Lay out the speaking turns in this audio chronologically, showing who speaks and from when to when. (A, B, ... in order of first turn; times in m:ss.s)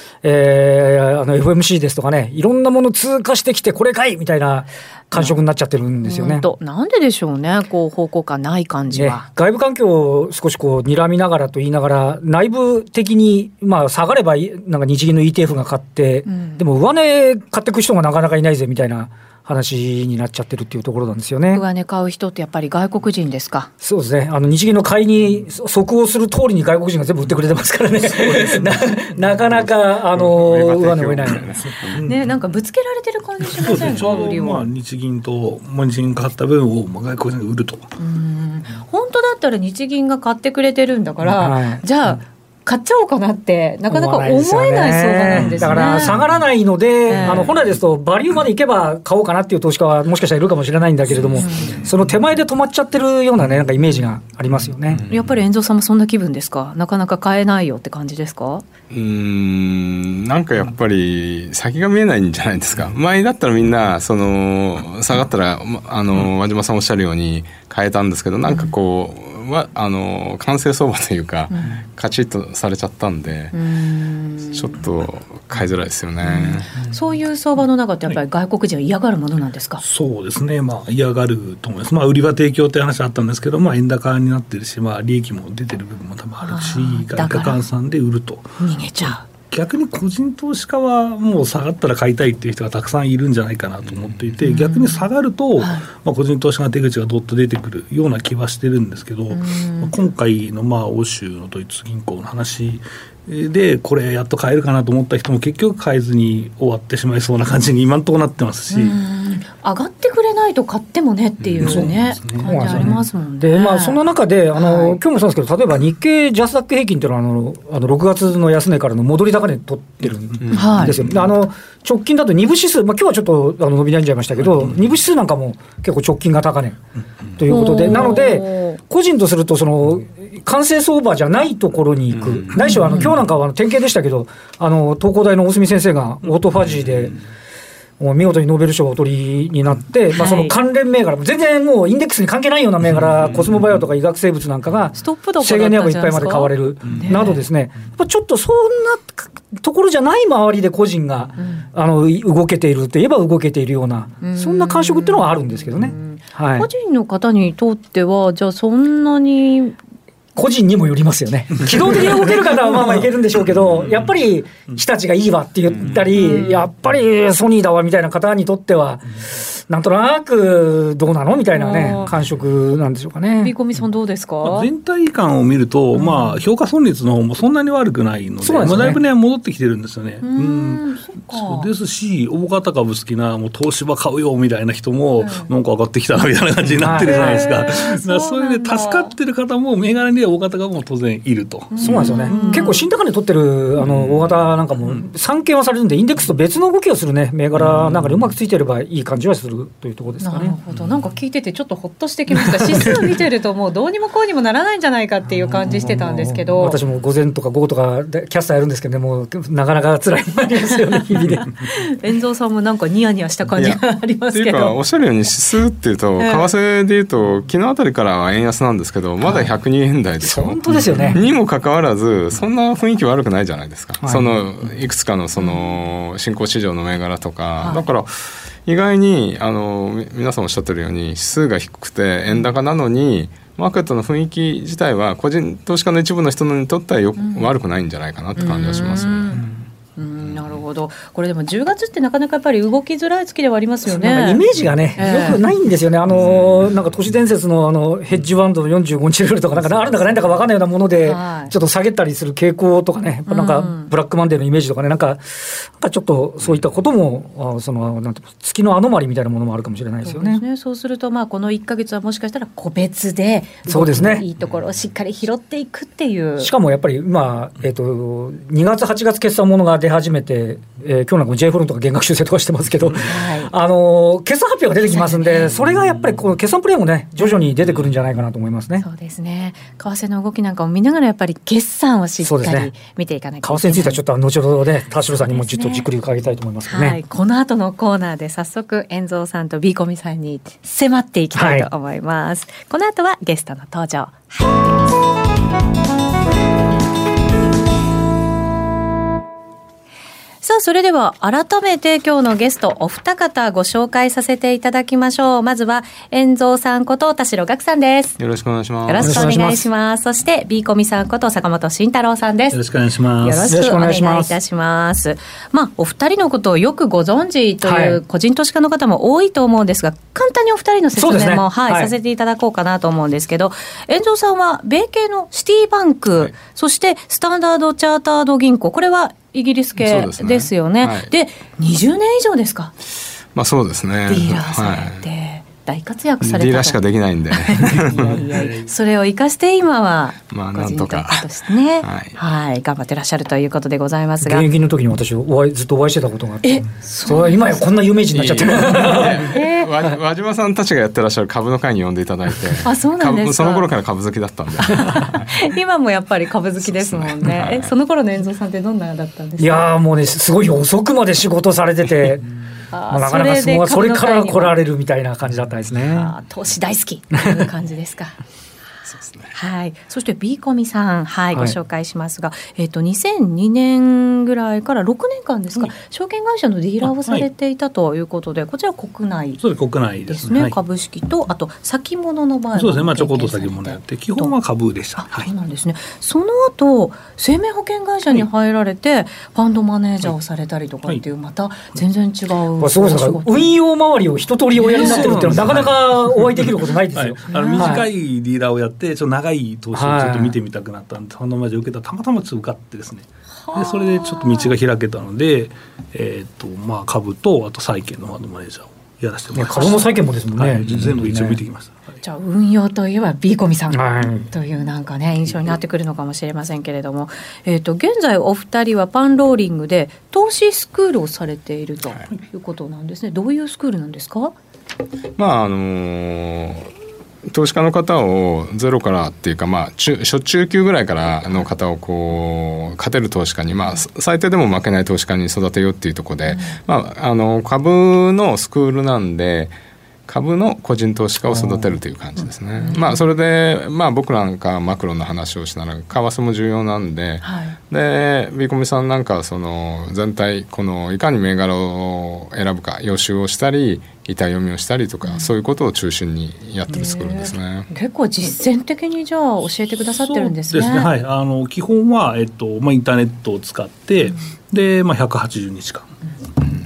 0:00.2-0:06.5 A
0:06.0-0:09.3 B
0:08.9-0:21.6 A
0:16.3-0:16.6 B
0:21.5-0:23.7 B
0:23.8-0:31.5 A
0:29.5-0:32.0 C
0:31.8-0:32.2 D
0:32.0-0:34.7 B
0:33.6-0:37.9 D
0:38.0-0:46.2 B
0:41.4-0:41.8 A
0:43.9-0:55.0 A
0:45.3-0:46.3 D
0:47.1-0:47.5 B
0:47.2-0:47.5 D
0:51.4-0:51.8 B
0:55.1-0:58.6 B
0:58.9-1:13.6 C
1:08.5-1:08.7 B
1:11.5-1:11.8 B
1:13.5-1:14.8 B
1:14.5-1:16.8 C
1:16.2-1:19.8 B
1:19.8-1:49.0 D
1:26.4-1:27.6 B
1:28.6-1:29.2 B
1:34.4-1:35.9 B
1:39.3-1:39.9 B
1:48.7-1:54.0 B
1:51.6-1:53.0 D
1:51.6-2:06.8 A
1:54.5-1:55.0 B
2:00.4-2:01.3 D
2:00.5-2:01.0 B
2:07.4-2:17.2 A
2:07.5-2:08.8 B
2:12.6-2:13.2 B
2:18.0-2:36.7 A
2:20.2-2:20.6 B
2:25.0-2:27.4 B
2:31.4-2:31.6 B
2:34.2-2:39.8 B
2:40.4-2:53.5 A
2:43.6-2:44.1 D
2:46.2-2:46.7 B
2:51.5-2:52.1 B
2:53.4-2:54.7 B
2:54.4-3:12.6 D
2:55.9-2:56.4 B
2:58.4-2:59.0 A
3:00.2-3:01.7 B
3:05.2-3:05.5 B
3:06.8-3:07.4 A
3:07.0-3:09.1 B
3:11.7-3:12.8 B
3:11.8-3:20.6 A
3:17.6-3:18.2 D
3:20.2-3:26.8 B
3:25.6-3:31.5 A
3:31.6-3:34.8 B
3:33.6-3:59.5 C
3:36.2-3:36.5 B
3:40.2-3:41.2 A
3:40.9-3:41.2 B
3:44.0-3:44.4 A
3:45.4-3:45.7 B
3:47.6-3:47.9 B
3:57.2-3:57.5 B
3:58.4-4:04.4 B
4:03.9-4:20.4 A
4:05.0-4:05.4 B
4:06.2-4:06.7 C
4:11.0-4:11.5 B
4:13.3-4:13.9 B
4:20.0-4:26.5 B
4:23.7-4:24.3 A
4:26.4-4:38.9 A
4:33.0-4:33.5 B
4:34.9-4:35.6 B
4:37.2-4:37.5 B
4:38.8-4:44.0 B
4:42.2-4:42.7 A
4:43.4-4:47.0 A
4:45.1-4:45.9 B
4:46.7-4:54.6 B
4:51.4-4:51.7 A
5:00.4-5:08.2 B
5:08.2-5:09.2 C
5:08.8-5:12.6 B
5:09.0-5:09.7 A
5:12.5-5:13.5 D
5:13.2-5:32.7 B
5:13.4-5:14.4 A
5:17.6-5:18.0 A
5:21.0-5:21.9 A
5:29.8-5:31.1 C
5:33.3-5:35.0 C
5:34.1-5:36.8 B
5:36.2-5:38.2 C
5:37.3-5:44.5 B
5:38.0-5:38.7 D
5:40.3-5:41.3 C
5:41.8-5:42.2 C
5:44.2-5:49.3 A
5:46.4-5:47.7 B
5:48.1-5:55.4 C
5:49.2-5:49.7 B
5:52.6-5:53.7 B
5:54.6-5:59.7 B
5:56.7-5:57.7 C
5:59.4-6:02.3 A
6:02.7-6:04.6 B
6:02.9-6:06.1 A
6:05.9-6:08.2 B
6:08.9-6:09.3 C
6:09.3-6:19.4 B
6:16.8-6:17.3 D
6:19.4-6:20.6 D
6:20.1-6:24.3 B
6:22.6-6:25.3 D
6:25.0-6:33.6 B
6:32.6-6:37.9 A
6:34.6-6:35.3 B
6:34.7-6:51.9 D
6:37.3-6:37.8 B
6:39.7-6:40.4 A
6:43.5-6:44.5 B
6:49.3-6:51.4 A
6:49.5-6:49.8 B
6:52.0-7:04.4 B
6:53.7-6:54.3 A
7:05.2-7:06.7 C
7:07.3-7:19.6 C
7:16.3-7:16.6 B
7:20.1-7:37.7 C
7:21.4-7:21.7 A
7:22.6-7:23.1 B
7:27.2-7:27.6 B
7:35.0-7:35.3 B
7:36.7-7:40.9 B
7:40.0-7:46.0 D